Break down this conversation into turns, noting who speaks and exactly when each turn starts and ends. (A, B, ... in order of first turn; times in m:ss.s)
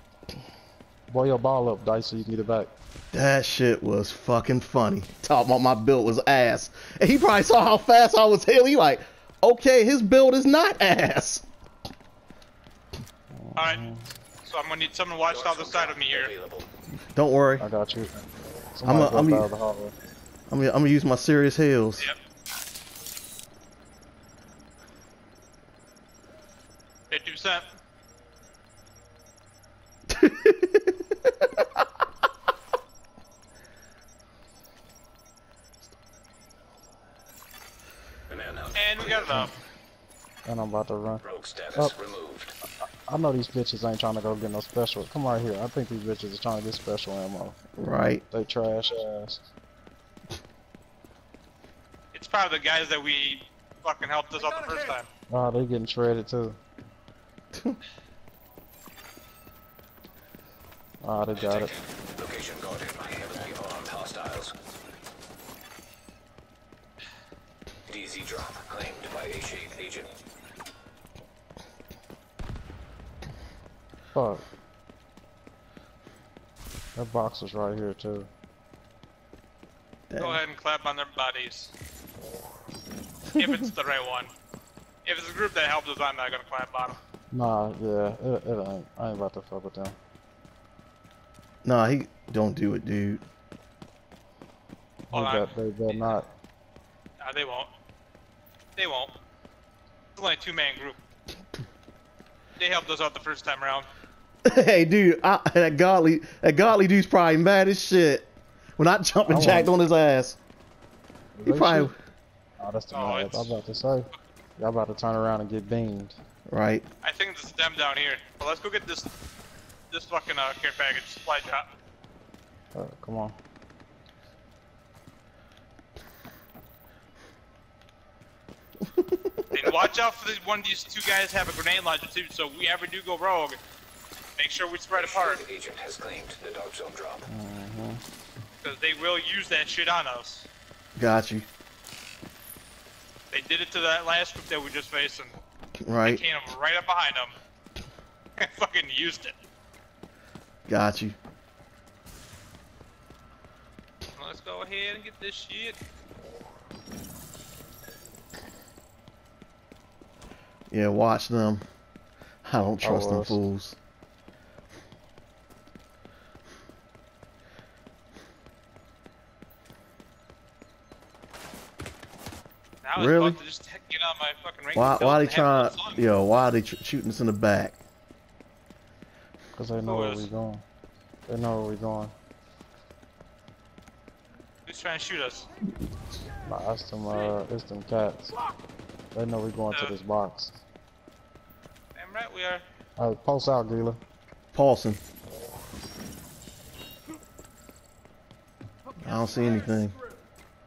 0:01.1-0:02.7 A
0:03.1-0:11.4 B
0:13.3-0:14.1 A
0:13.6-0:13.8 C
0:14.4-0:16.3 C
0:15.3-0:16.7 D
0:17.1-0:17.7 B
0:17.6-0:18.2 A
0:18.8-0:19.9 A
0:18.8-0:19.5 B
0:20.5-0:22.1 B
0:27.1-0:27.6 C
0:30.1-0:30.9 B
0:38.3-0:39.2 D
0:38.8-0:39.6 C
0:40.4-0:41.2 A
0:41.2-0:42.5 D
0:43.1-0:47.6 A
0:47.8-0:48.2 B
0:48.3-0:49.4 A
0:52.2-0:55.1 C
0:55.3-0:56.6 A
1:01.0-1:01.7 A
1:01.4-1:04.5 D
1:07.9-1:10.1 D
1:14.1-1:14.4 A
1:17.0-1:18.3 A
1:20.1-1:20.4 B
1:20.2-1:21.7 C
1:23.4-1:24.3 C
1:25.0-1:27.0 C
1:27.3-1:30.0 A
1:31.6-1:33.2 B
1:35.1-1:36.3 A
1:35.1-1:35.6 C
1:37.2-1:37.7 C
1:38.8-1:39.1 C
1:40.2-1:41.0 C
1:42.6-1:43.9 C
1:44.4-1:50.4 B
1:49.3-1:49.7 A
1:51.4-1:51.9 A
1:51.5-1:52.0 B
1:52.6-1:54.1 A
1:52.9-1:53.5 C
1:54.6-1:56.2 A
1:56.5-1:56.8 B
1:57.0-1:59.1 C
1:59.9-2:01.7 C
2:02.7-2:03.4 A
2:09.5-2:13.6 C
2:14.4-2:15.5 C
2:15.0-2:17.2 D
2:17.3-2:18.0 A
2:18.6-2:20.5 C
2:21.0-2:21.5 B
2:23.3-2:25.3 C
2:25.9-2:26.2 B
2:26.0-2:27.3 C
2:28.4-2:29.3 C
2:30.7-2:31.2 B
2:34.2-2:35.8 C
2:40.7-2:41.6 B
2:42.4-2:43.8 B
2:42.8-2:43.4 A
2:52.8-2:56.0 C
2:53.0-2:53.4 B
2:54.8-2:57.8 B
2:59.5-3:00.6 A
2:59.8-3:00.3 C
3:01.3-3:02.1 A
3:04.7-3:05.5 C
3:06.5-3:08.3 A
3:09.1-3:10.6 A
3:12.0-3:12.6 C
3:13.0-3:14.0 A
3:14.5-3:15.0 B
3:19.0-3:20.0 B